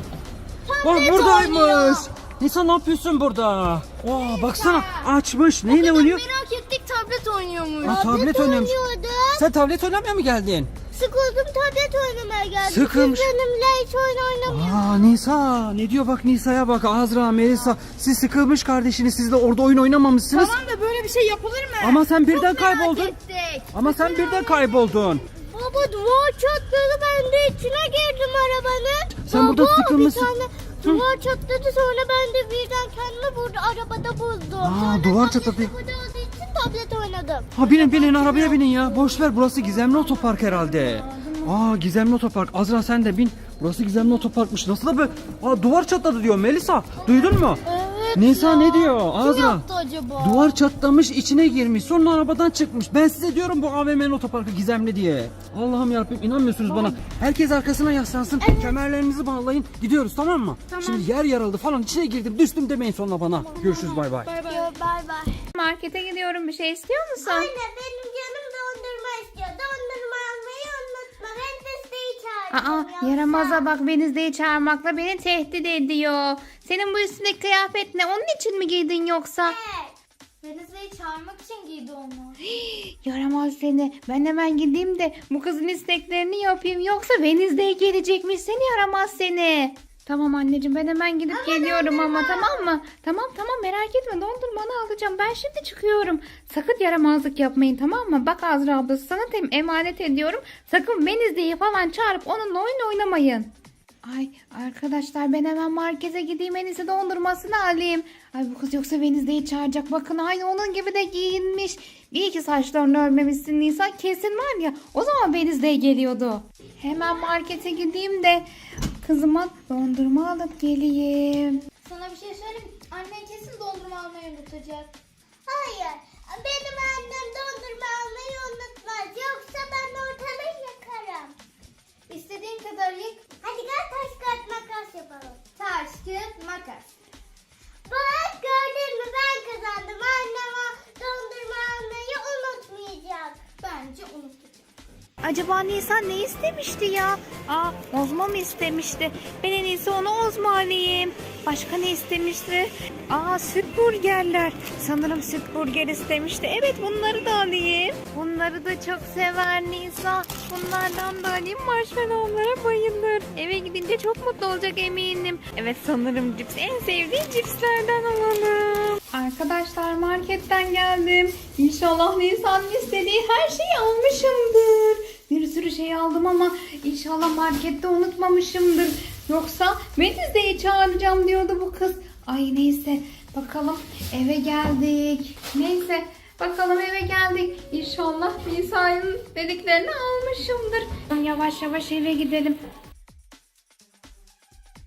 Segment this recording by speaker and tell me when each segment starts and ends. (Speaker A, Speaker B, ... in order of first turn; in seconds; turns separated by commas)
Speaker A: 0.7-2.1, Speaker B: 0.8-6.2, Speaker C: 4.0-5.1, Speaker C: 5.7-8.1, Speaker B: 7.8-8.7, Speaker A: 7.8-9.4, Speaker B: 9.3-10.7, Speaker A: 10.9-15.1, Speaker B: 12.6-13.3, Speaker B: 14.4-20.6, Speaker C: 20.3-24.3, Speaker B: 21.8-23.1, Speaker B: 23.7-25.2, Speaker A: 25.4-37.7, Speaker B: 29.2-30.3, Speaker B: 34.6-35.7, Speaker B: 37.5-47.6, Speaker C: 37.6-38.8, Speaker C: 39.7-41.5, Speaker C: 47.6-50.5, Speaker B: 48.1-49.6, Speaker B: 50.2-64.3, Speaker C: 56.6-57.0, Speaker C: 58.4-58.7, Speaker C: 60.7-61.1, Speaker C: 63.4-64.7, Speaker A: 64.4-65.4, Speaker D: 65.5-67.5, Speaker A: 67.2-73.7, Speaker D: 72.5-79.6, Speaker A: 79.4-79.9, Speaker C: 80.4-82.4, Speaker D: 82.4-103.5, Speaker A: 91.4-92.7, Speaker D: 104.0-118.5, Speaker D: 119.0-121.6, Speaker C: 121.8-124.9, Speaker A: 125.5-131.3, Speaker C: 132.1-133.2, Speaker A: 133.4-135.4, Speaker C: 135.6-136.8, Speaker A: 137.9-143.4, Speaker C: 143.6-144.5, Speaker D: 145.2-192.6